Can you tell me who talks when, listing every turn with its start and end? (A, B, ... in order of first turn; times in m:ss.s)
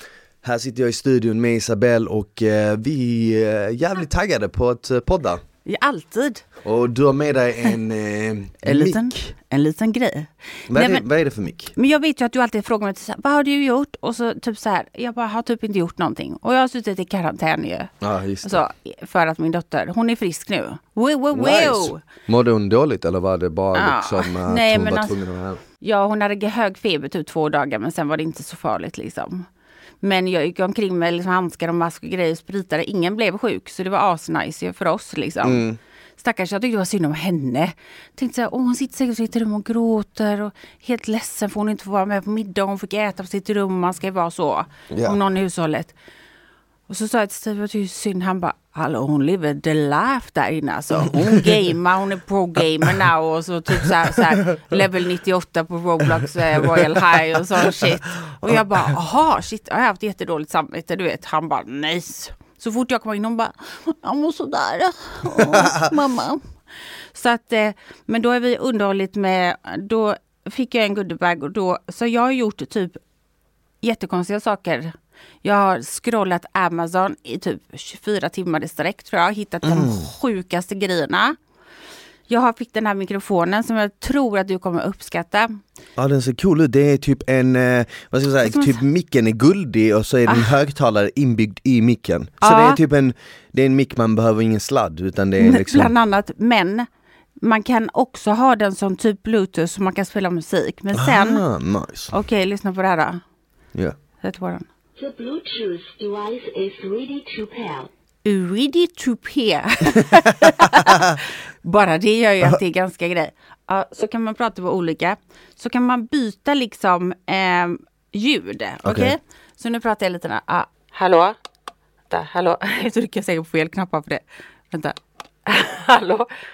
0:00.4-0:05.4 A
0:05.6-0:06.4 B
0:06.6-0:09.3 A
0:08.6-0:11.0 B
0:10.7-0:11.7 A
0:11.8-0:17.9 B
0:18.0-0:18.6 A
0:18.4-0:22.0 B
0:21.3-0:25.6 A
0:23.8-0:25.2 B
0:25.8-0:29.5 B
0:30.0-0:35.6 B
0:35.4-0:35.8 A
0:36.2-0:46.0 B
0:44.9-0:45.2 A
0:46.9-1:06.4 B
0:51.1-0:51.6 A
0:54.4-0:54.7 A
0:57.6-0:58.6 A
1:05.4-1:05.9 A
1:07.1-1:13.0 B
1:13.8-1:21.4 B
1:19.6-1:20.1 A
1:22.3-1:25.6 B
1:26.0-1:35.9 A
1:28.4-1:28.8 B
1:30.3-1:30.5 B
1:32.4-1:32.8 B
1:35.4-1:36.9 B
1:37.4-1:41.4 B
1:41.0-1:42.1 A
1:42.1-1:43.2 B
1:44.2-1:44.7 B
1:45.0-1:47.9 C
1:48.2-2:01.4 B
1:50.0-1:51.2 A
1:58.8-1:59.1 A
2:02.1-2:06.3 B